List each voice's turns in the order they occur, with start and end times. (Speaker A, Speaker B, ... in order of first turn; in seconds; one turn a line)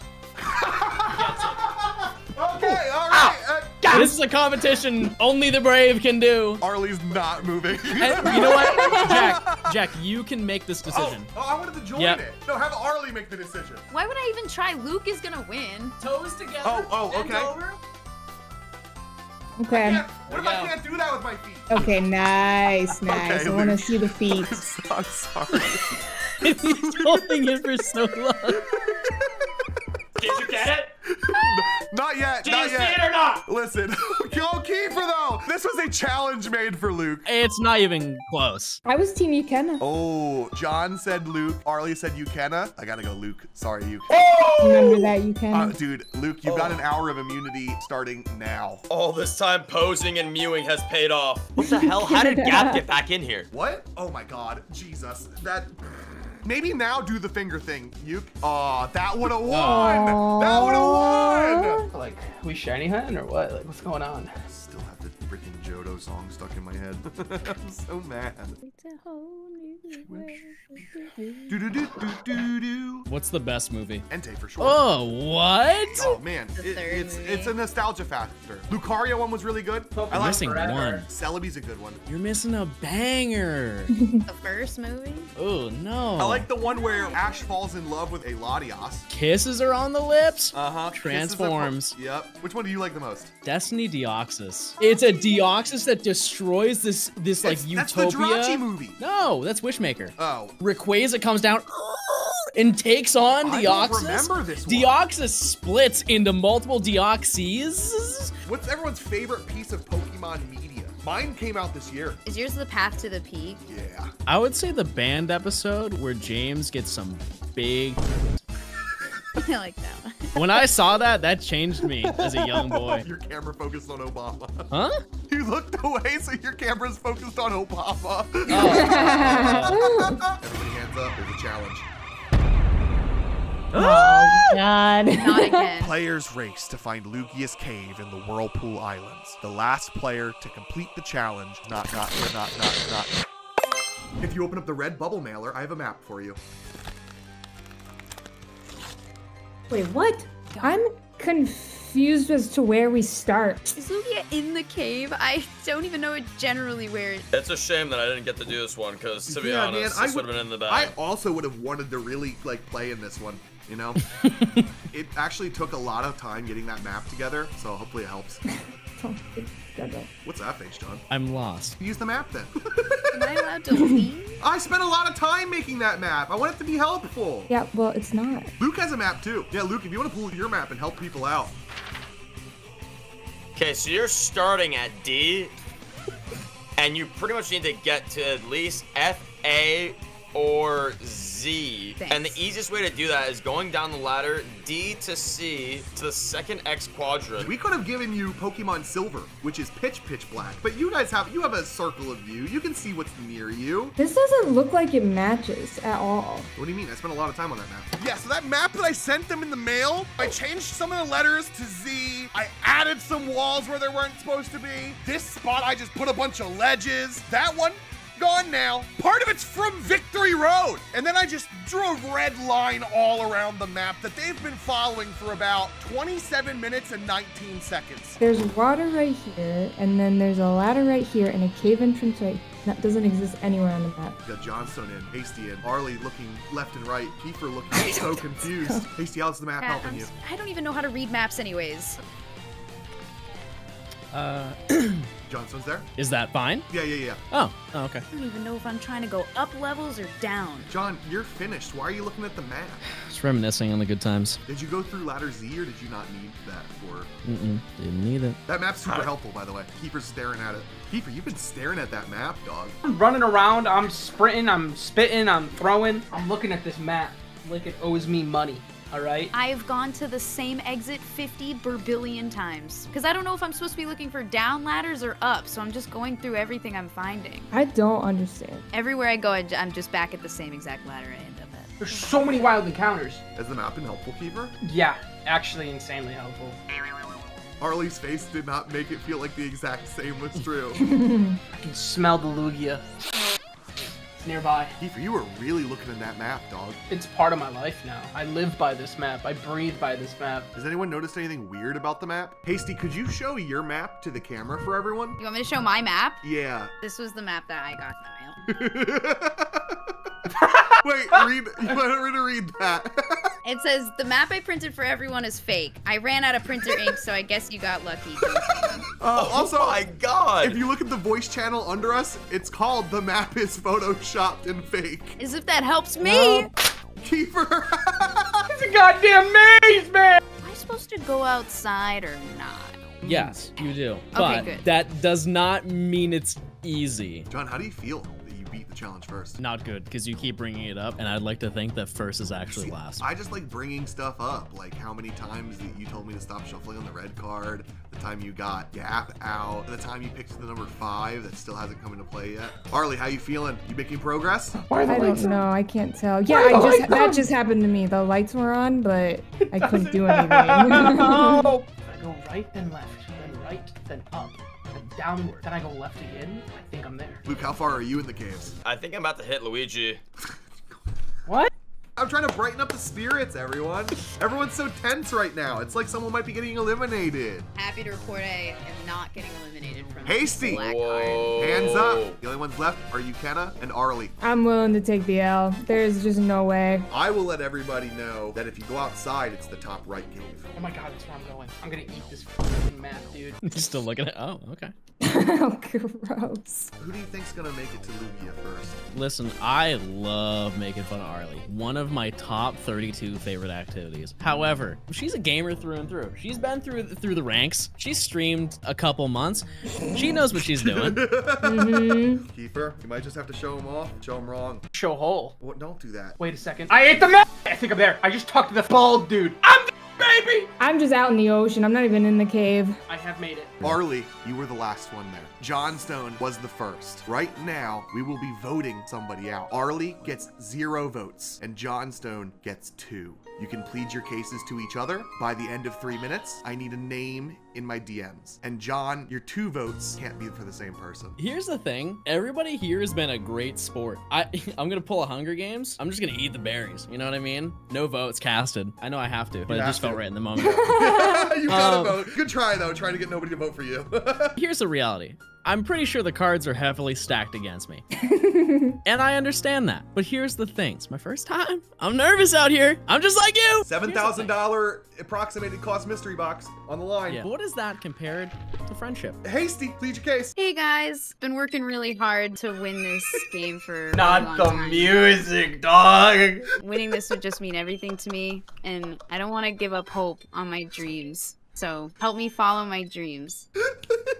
Speaker A: 0.4-4.1
Speaker B: 3.9-6.6
Speaker A: 6.6-9.8
Speaker B: 7.9-11.3
Speaker C: 8.1-8.5
Speaker D: 8.5-9.1
Speaker A: 10.8-13.8
Speaker B: 11.9-12.2
Speaker E: 13.9-16.0
Speaker B: 16.0-17.8
Speaker A: 16.6-17.5
Speaker D: 19.6-20.1
Speaker A: 19.7-21.7
Speaker B: 20.2-20.7
Speaker D: 21.7-24.6
Speaker A: 23.0-27.6
Speaker B: 26.4-28.6
Speaker A: 28.6-29.5
Speaker F: 30.2-30.9
Speaker A: 30.2-30.5
Speaker A: 31.1-37.3
Speaker F: 32.4-33.4
Speaker B: 37.2-38.8
Speaker D: 38.8-39.8
Speaker A: 39.8-44.1
Speaker F: 44.1-45.1
Speaker D: 44.6-45.8
Speaker A: 45.5-48.8
Speaker F: 46.4-46.8
Speaker F: 48.9-53.5
Speaker D: 51.6-52.8
Speaker A: 53.5-55.8
Speaker A: 56.4-61.8
Speaker B: 59.5-60.2
Speaker D: 59.6-61.8
Speaker C: 61.9-64.3
Speaker A: 64.4-68.6
Speaker E: 68.6-71.3
Speaker A: 70.1-70.3
Speaker A: 71.5-73.0
Speaker B: 73.1-74.0
Speaker A: 74.1-74.8
Speaker B: 74.6-76.1
Speaker A: 75.9-82.0
Speaker E: 76.0-77.5
Speaker C: 79.9-81.0
Speaker B: 80.1-81.0
Speaker B: 82.1-83.9
Speaker D: 83.9-84.2
Speaker E: 84.2-85.3
Speaker B: 85.3-86.5
Speaker A: 86.2-89.0
Speaker E: 86.7-87.4
Speaker B: 89.1-92.0
Speaker A: 90.5-93.3
Speaker B: 93.4-108.3
Speaker A: 97.4-99.0
Speaker A: 100.2-100.5
Speaker A: 103.4-105.0
Speaker A: 108.4-112.2
Speaker E: 112.2-113.7
Speaker A: 113.7-114.1
Speaker B: 114.3-118.2
Speaker E: 119.3-120.6
Speaker B: 120.3-123.0
Speaker A: 122.0-124.7
Speaker B: 124.7-125.0
Speaker A: 125.3-131.9
Speaker B: 128.5-129.8
Speaker D: 128.5-130.2
Speaker B: 133.7-134.6
Speaker D: 133.7-135.7
Speaker E: 135.1-136.0
Speaker A: 135.8-143.1
Speaker A: 144.2-146.4
Speaker D: 149.7-153.7
Speaker E: 153.7-157.3
Speaker F: 157.3-160.9
Speaker A: 159.3-164.0
Speaker B: 164.2-164.7
Speaker A: 164.9-168.4
Speaker D: 169.0-170.1
Speaker A: 170.2-171.0
Speaker B: 171.1-171.8
Speaker A: 171.8-173.1
Speaker E: 173.1-174.4
Speaker D: 173.7-174.1
Speaker A: 174.4-177.5
Speaker D: 177.5-178.5
Speaker A: 178.6-181.5
Speaker F: 183.6-185.5
Speaker F: 186.8-197.5
Speaker E: 192.0-192.4
Speaker A: 197.4-203.9
Speaker D: 204.0-206.5
Speaker A: 206.6-228.2
Speaker D: 228.2-234.2
Speaker A: 234.2-240.1
Speaker D: 237.8-238.9
Speaker E: 239.6-242.0
Speaker B: 244.1-245.1
Speaker A: 245.3-245.8
Speaker B: 246.0-246.7
Speaker A: 246.7-247.2
Speaker B: 247.3-248.0
Speaker E: 248.1-250.7
Speaker A: 250.7-252.8
Speaker B: 252.9-254.4
Speaker A: 254.5-257.1
Speaker B: 257.2-258.4
Speaker A: 258.5-262.8
Speaker C: 262.8-269.3
Speaker E: 269.3-277.5
Speaker D: 277.5-278.6
Speaker E: 278.7-281.8
Speaker C: 281.8-283.2
Speaker A: 283.4-284.5
Speaker C: 284.6-286.6
Speaker A: 287.6-290.8
Speaker D: 290.8-291.4
Speaker C: 291.5-292.9
Speaker C: 294.1-294.8
Speaker A: 294.8-296.8
Speaker C: 296.9-300.5
Speaker A: 300.5-305.2
Speaker E: 305.2-306.2
Speaker A: 306.2-306.7
Speaker E: 306.8-308.4
Speaker A: 308.5-309.8
Speaker C: 310.4-310.8
Speaker A: 310.8-313.3
Speaker E: 313.4-318.8
Speaker A: 319.0-319.8
Speaker F: 319.1-320.6
Speaker A: 320.4-325.2
Speaker E: 325.2-326.5
Speaker B: 326.0-326.4
Speaker A: 327.0-328.6
Speaker C: 328.6-330.2
Speaker E: 330.4-333.6
Speaker B: 333.0-337.3
Speaker E: 334.1-334.6
Speaker A: 337.3-339.4
Speaker B: 339.4-343.0
Speaker A: 342.5-354.6
Speaker C: 354.6-355.4
Speaker D: 354.8-361.4
Speaker C: 356.3-357.2
Speaker C: 359.4-367.2
Speaker A: 367.2-368.5
Speaker F: 368.6-370.0
Speaker C: 371.2-371.5
Speaker A: 372.0-377.5
Speaker E: 377.5-381.5
Speaker A: 380.0-380.6
Speaker F: 380.5-382.1
Speaker A: 381.4-384.1
Speaker D: 384.2-386.9
Speaker A: 386.9-390.5
Speaker C: 390.5-393.4
Speaker B: 393.4-394.7
Speaker D: 395.0-396.7
Speaker A: 396.8-398.9
Speaker B: 398.9-411.1
Speaker A: 410.4-414.6
Speaker D: 411.4-412.2
Speaker C: 414.7-415.3
Speaker A: 415.4-416.2
Speaker C: 416.2-420.5
Speaker D: 420.6-422.8
Speaker C: 422.9-423.6
Speaker A: 423.6-441.1
Speaker B: 441.2-450.9
Speaker A: 449.5-454.4
Speaker D: 450.7-451.3
Speaker B: 451.5-452.0
Speaker B: 454.4-457.8
Speaker D: 458.0-458.8
Speaker B: 458.8-464.3
Speaker A: 463.6-467.3
Speaker B: 467.1-469.2
Speaker A: 469.2-470.3
Speaker E: 470.4-474.9
Speaker C: 473.9-476.5
Speaker E: 476.6-483.5